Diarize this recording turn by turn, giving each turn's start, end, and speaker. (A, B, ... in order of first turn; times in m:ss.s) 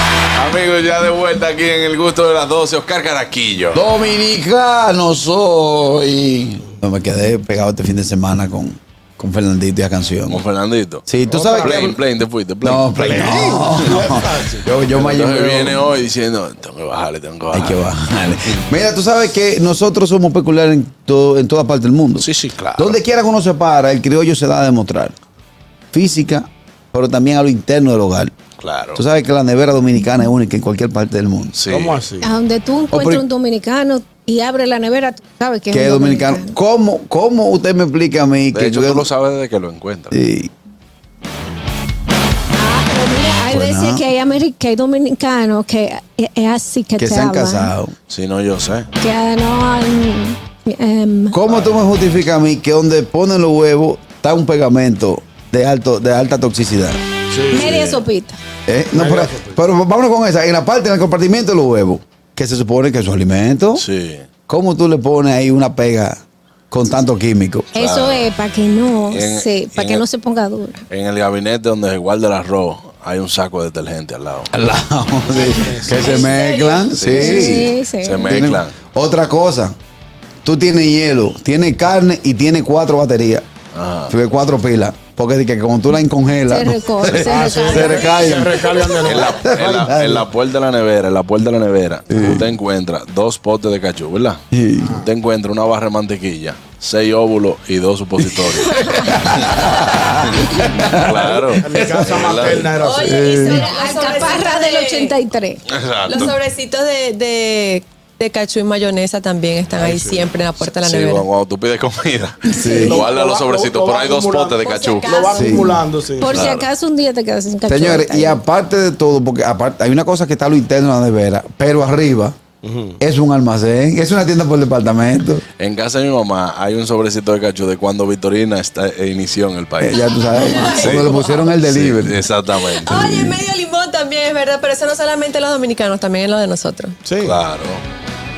0:00.3-0:03.8 A
0:03.7-0:10.4 B
0:10.3-0:13.1 A
0:11.1-0:11.8 B
0:11.2-0:12.0 C
0:12.6-0:15.8 B
0:13.0-0:14.7 C
0:14.9-0:17.9 A
0:17.5-0:25.1 B
0:22.2-0:23.0 A
0:25.9-0:28.3 B
0:28.6-0:29.0 A
0:29.0-0:31.5 B
0:31.5-0:32.0 A
0:31.7-0:32.3 C
0:32.2-0:36.6 D
0:32.9-0:33.2 B
0:35.7-0:39.1 B
0:38.5-0:40.2 A
0:40.1-0:40.5 B
0:42.5-0:47.7 D
0:43.5-0:44.0 B
0:47.0-0:47.9 B
0:48.1-0:48.9 A
0:49.0-0:51.4 D
0:51.3-0:57.0 B
0:51.5-0:51.8 C
0:57.3-0:58.0 C
0:57.5-0:58.4 D
0:58.7-1:03.8 B
0:58.9-0:59.6 C
1:03.8-1:04.3 A
1:04.5-1:06.2 B
1:06.7-1:07.7 B
1:07.7-1:10.8 D
1:07.8-1:08.3 A
1:09.1-1:10.0 A
1:10.9-1:14.5 A
1:14.5-1:17.7 B
1:15.3-1:16.3 C
1:15.9-1:16.9 E
1:16.9-1:18.7 A
1:17.1-1:18.4 D
1:18.2-1:19.7 B
1:20.4-1:23.4 B
1:23.7-1:24.1 A
1:24.1-1:30.3 B
1:26.5-1:28.5 D
1:27.2-1:29.4 C
1:29.0-1:34.4 A
1:32.1-1:32.5 B
1:34.5-1:35.0 B
1:34.8-1:35.1 C
1:35.0-1:39.5 A
1:38.4-1:43.6 B
1:39.6-1:40.1 E
1:40.9-1:42.7 A
1:41.3-1:43.2 C
1:42.7-1:45.2 E
1:43.4-1:45.6 D
1:45.7-1:46.3 A
1:46.0-1:51.2 E
1:49.7-1:50.4 C
1:50.6-1:55.2 A
1:52.5-1:52.9 D
1:52.6-1:53.0 B
1:52.8-1:56.5 C
1:54.6-1:55.7 E
1:55.3-1:55.8 B
1:56.2-1:58.4 D
1:56.3-1:56.7 A
1:57.7-2:02.4 B
2:02.6-2:03.0 C
2:03.0-2:05.4 B
2:05.6-2:12.9 A
2:09.8-2:12.2 B
2:10.3-2:11.5 E
2:12.6-2:17.0 E
2:12.8-2:13.4 B
2:17.0-2:17.4 C
2:17.2-2:17.8 A